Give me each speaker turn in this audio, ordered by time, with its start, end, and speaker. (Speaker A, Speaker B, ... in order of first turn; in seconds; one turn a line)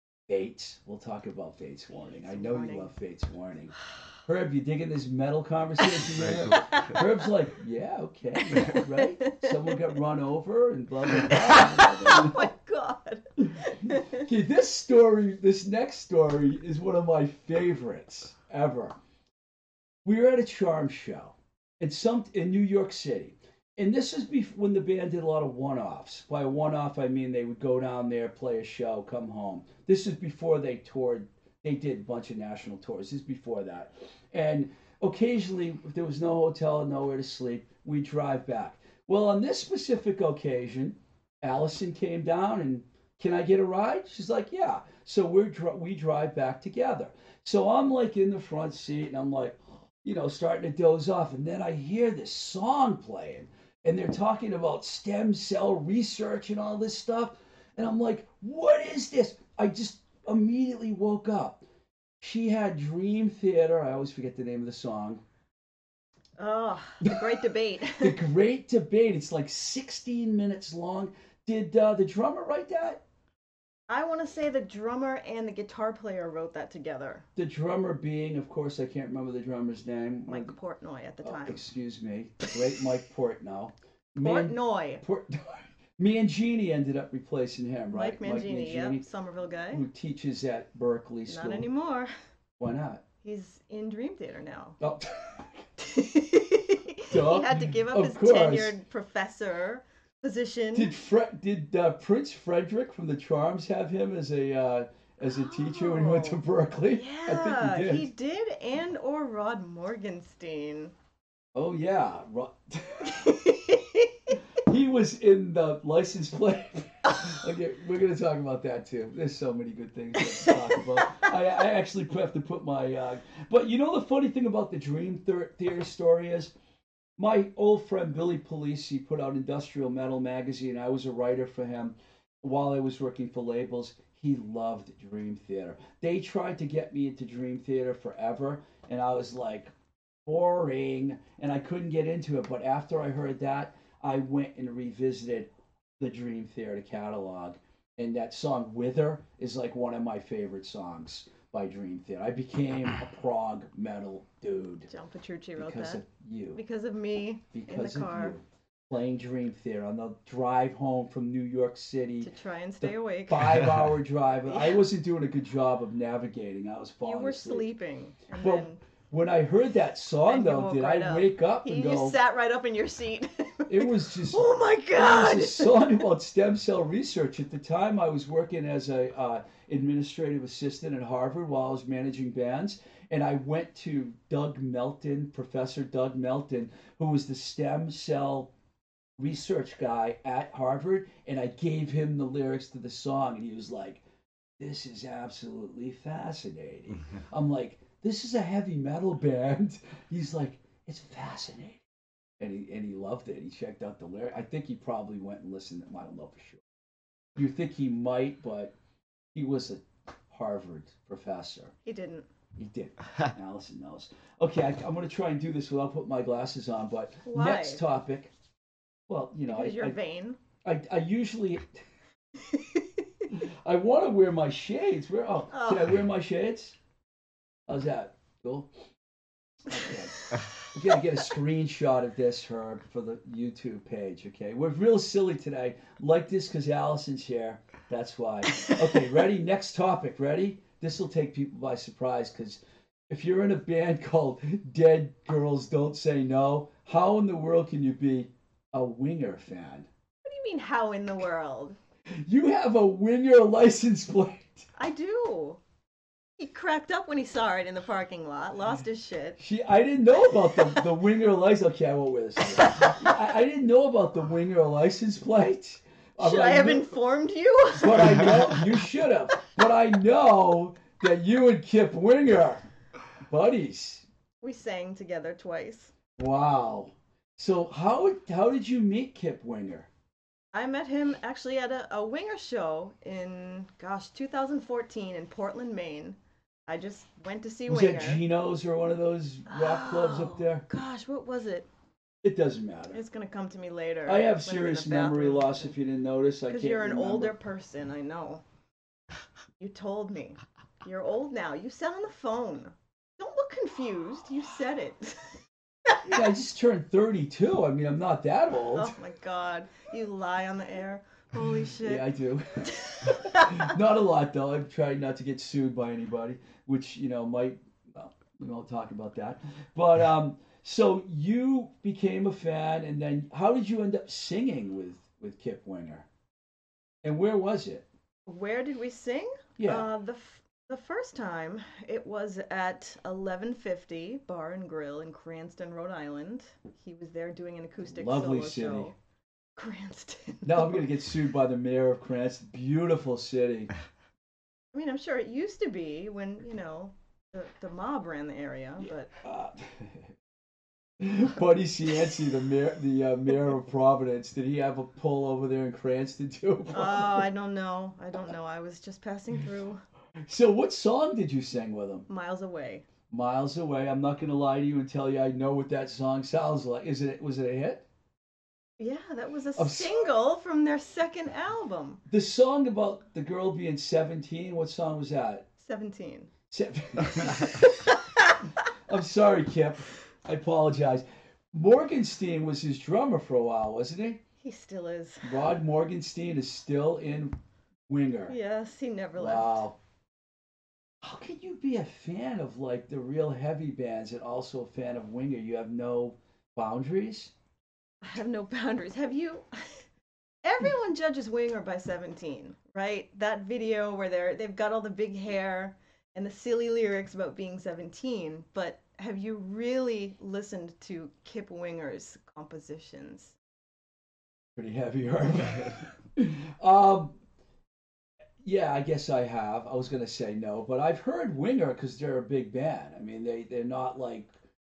Speaker A: 0.3-12.5
Speaker B: 2.2-2.9
Speaker B: 6.6-7.0
Speaker B: 8.4-9.7
Speaker B: 11.4-14.2
Speaker A: 13.5-19.0
Speaker A: 20.0-61.6
Speaker A: 62.2-65.2
Speaker B: 66.4-68.2
Speaker A: 67.0-67.4
Speaker A: 67.9-73.0
Speaker B: 73.9-77.2
Speaker A: 77.3-80.5
Speaker B: 80.3-81.6
Speaker A: 81.2-89.1
Speaker B: 84.2-85.0
Speaker B: 87.9-89.8
Speaker A: 89.7-91.7
Speaker B: 91.3-92.1
Speaker A: 92.6-93.0
Speaker B: 93.2-94.8
Speaker A: 94.8-95.6
Speaker B: 95.8-100.9
Speaker A: 97.1-98.8
Speaker A: 100.7-108.1
Speaker B: 105.2-106.4
Speaker B: 106.9-110.9
Speaker A: 111.5-113.3
Speaker B: 113.0-114.3
Speaker A: 114.5-126.5
Speaker B: 120.2-121.3
Speaker A: 127.2-139.7
Speaker A: 140.2-154.9
Speaker B: 154.9-156.0
Speaker A: 155.6-156.6
Speaker B: 156.5-158.3
Speaker A: 157.5-167.7
Speaker B: 162.2-163.6
Speaker B: 164.5-164.8
Speaker B: 167.0-168.8
Speaker A: 168.4-172.2
Speaker B: 170.2-175.9
Speaker A: 173.7-188.5
Speaker A: 189.2-194.0
Speaker A: 194.6-201.8
Speaker A: 202.4-206.6
Speaker A: 207.3-208.7
Speaker A: 209.3-211.7
Speaker B: 211.8-212.3
Speaker A: 212.6-218.3
Speaker B: 217.2-217.8
Speaker A: 219.1-220.0
Speaker B: 219.5-220.4
Speaker A: 220.6-221.8
Speaker B: 222.3-223.2
Speaker A: 223.3-226.8
Speaker B: 225.5-225.9
Speaker A: 227.7-228.7
Speaker A: 229.7-249.9
Speaker B: 229.8-230.5
Speaker B: 238.5-239.0
Speaker B: 250.2-251.8
Speaker A: 252.2-254.7
Speaker B: 254.8-255.6
Speaker B: 256.4-259.4
Speaker A: 259.4-266.9
Speaker B: 262.7-262.9
Speaker B: 266.2-268.5
Speaker A: 267.7-272.6
Speaker A: 273.2-274.1
Speaker B: 274.4-275.9
Speaker A: 276.2-279.9
Speaker B: 280.5-288.2
Speaker A: 287.7-290.6
Speaker B: 289.5-291.7
Speaker A: 292.2-293.0
Speaker B: 292.9-295.8
Speaker A: 294.1-297.3
Speaker B: 296.5-298.4
Speaker B: 299.6-306.0
Speaker A: 306.0-309.0
Speaker B: 308.7-312.1
Speaker A: 311.8-326.1
Speaker B: 312.7-313.7
Speaker A: 327.0-327.9
Speaker B: 328.3-338.9
Speaker A: 329.6-329.9
Speaker A: 337.8-338.9
Speaker B: 339.6-340.8
Speaker A: 340.4-343.7
Speaker B: 344.7-349.1
Speaker A: 349.2-350.1
Speaker A: 351.0-357.3
Speaker B: 356.7-359.8
Speaker A: 360.2-362.1
Speaker B: 362.1-362.8
Speaker A: 363.1-367.8
Speaker B: 368.8-372.0
Speaker A: 369.6-370.1
Speaker A: 372.1-375.5
Speaker B: 375.6-376.3
Speaker A: 376.5-377.7
Speaker B: 377.2-378.4
Speaker A: 378.9-384.2
Speaker B: 384.4-385.4
Speaker A: 385.2-387.4
Speaker A: 387.9-388.4
Speaker B: 388.3-389.6
Speaker A: 389.2-389.8
Speaker A: 391.0-397.3
Speaker B: 398.0-399.9
Speaker B: 400.4-413.4
Speaker A: 414.6-417.1
Speaker A: 418.4-424.3